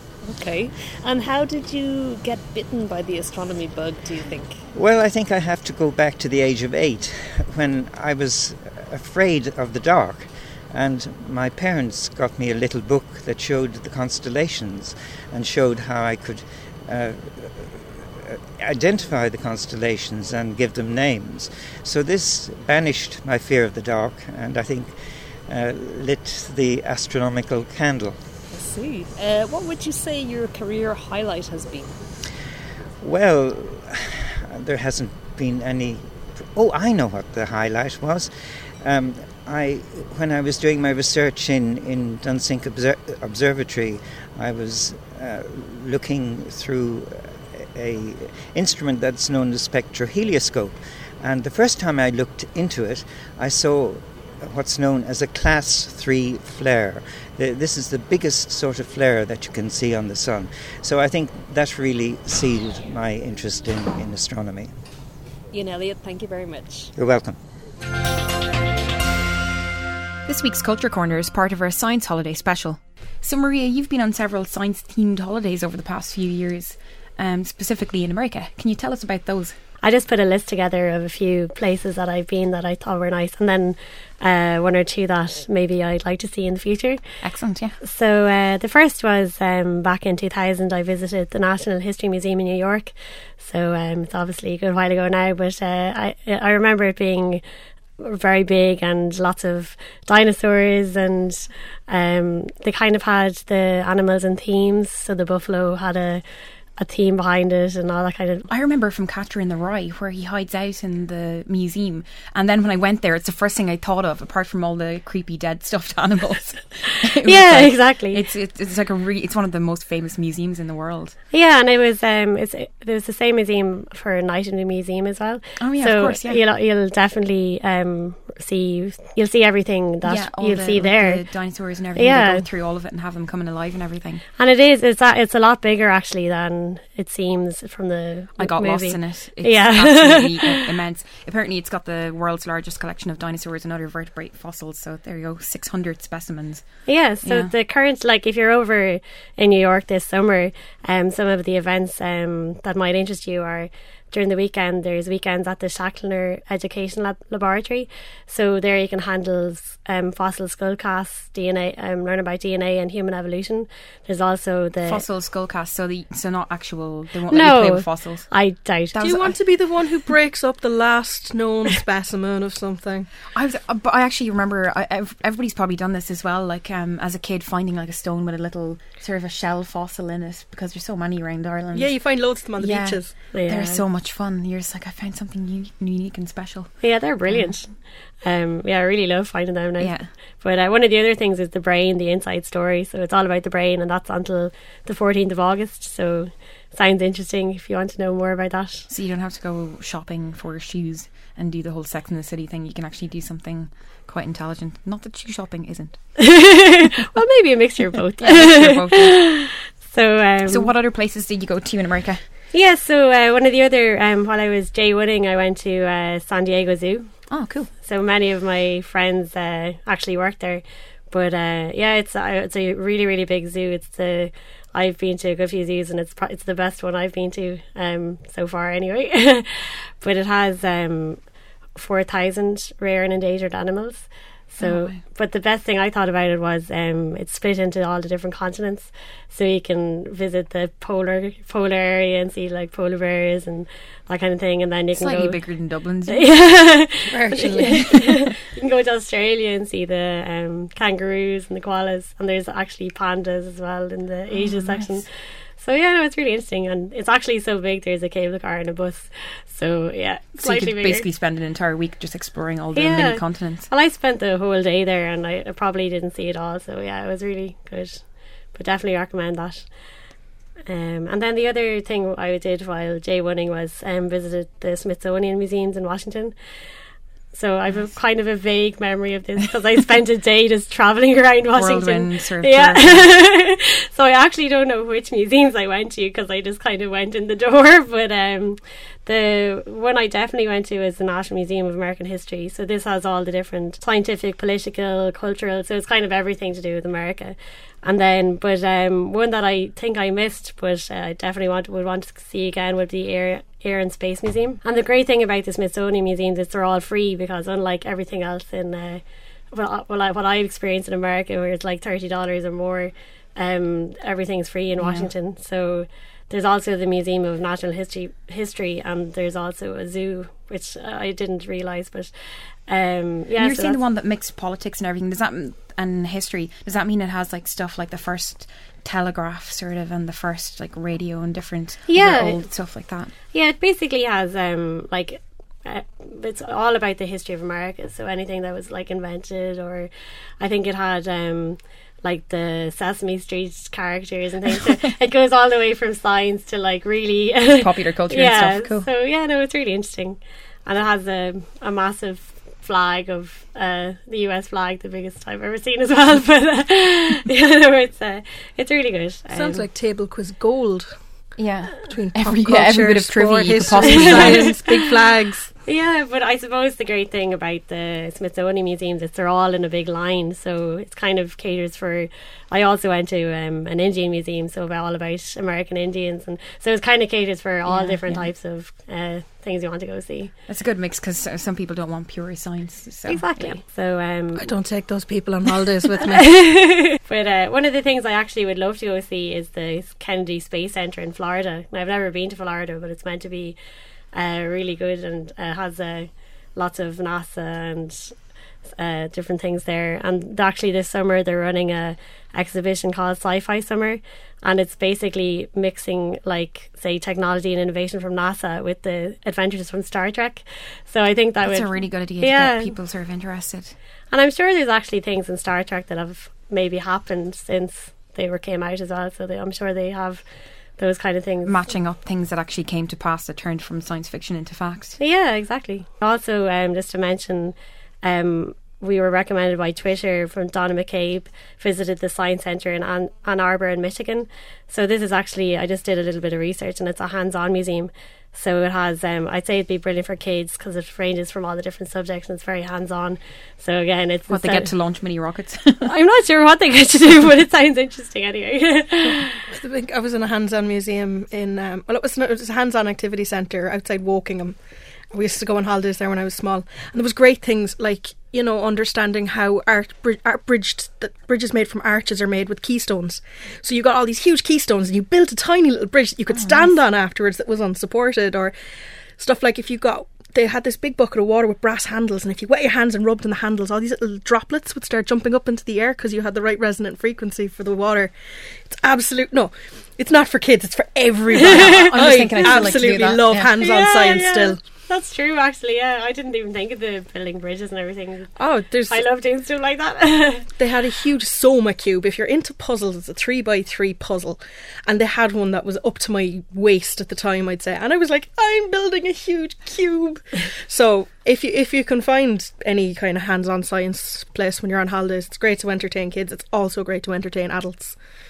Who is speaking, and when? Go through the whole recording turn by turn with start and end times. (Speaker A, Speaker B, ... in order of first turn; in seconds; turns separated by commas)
Speaker A: 0.2-4.7, Speaker B: 4.7-28.2, Speaker A: 28.5-31.9, Speaker B: 33.0-64.7, Speaker A: 65.5-66.9, Speaker B: 66.9-67.4, Speaker C: 70.2-79.6, Speaker D: 79.8-87.0, Speaker C: 87.2-87.8, Speaker D: 87.8-97.4, Speaker D: 98.0-106.2, Speaker D: 106.7-108.5, Speaker C: 108.5-121.2, Speaker D: 117.2-118.2, Speaker D: 121.3-132.5, Speaker C: 125.6-126.4, Speaker C: 130.0-134.2, Speaker D: 134.4-140.5, Speaker C: 138.4-147.5, Speaker D: 146.8-165.0, Speaker C: 164.8-169.4, Speaker D: 167.3-169.2, Speaker E: 169.0-173.1, Speaker C: 173.3-187.7, Speaker E: 181.7-183.2, Speaker D: 183.3-183.8, Speaker D: 186.8-198.9, Speaker C: 189.8-190.1, Speaker C: 198.9-206.2, Speaker D: 206.2-210.7, Speaker C: 208.1-209.3, Speaker C: 210.5-212.2, Speaker D: 212.5-261.1, Speaker C: 217.3-217.7, Speaker C: 234.6-235.0, Speaker C: 244.9-248.3, Speaker C: 254.3-255.0, Speaker C: 260.4-263.7, Speaker D: 262.7-270.1, Speaker D: 270.7-276.7, Speaker D: 277.3-323.8, Speaker C: 277.7-278.0, Speaker C: 281.5-283.2, Speaker C: 314.8-315.1, Speaker C: 323.4-333.1, Speaker D: 331.9-359.7, Speaker C: 347.6-348.9, Speaker E: 359.3-365.5, Speaker C: 361.3-364.6, Speaker D: 363.9-364.8, Speaker D: 365.6-380.3, Speaker C: 377.6-378.3, Speaker C: 380.5-383.6, Speaker D: 383.1-384.5, Speaker E: 384.3-386.7, Speaker D: 386.0-393.6, Speaker D: 394.1-412.8, Speaker C: 411.4-413.8, Speaker D: 414.1-421.7, Speaker C: 421.4-425.0, Speaker D: 425.0-444.8, Speaker C: 444.3-445.9, Speaker D: 445.8-449.3, Speaker E: 449.4-454.6, Speaker E: 455.1-468.5, Speaker C: 466.3-466.7, Speaker E: 469.1-484.6, Speaker D: 481.4-482.6, Speaker C: 481.6-483.5, Speaker D: 483.5-490.5, Speaker E: 488.4-489.0, Speaker E: 490.6-508.0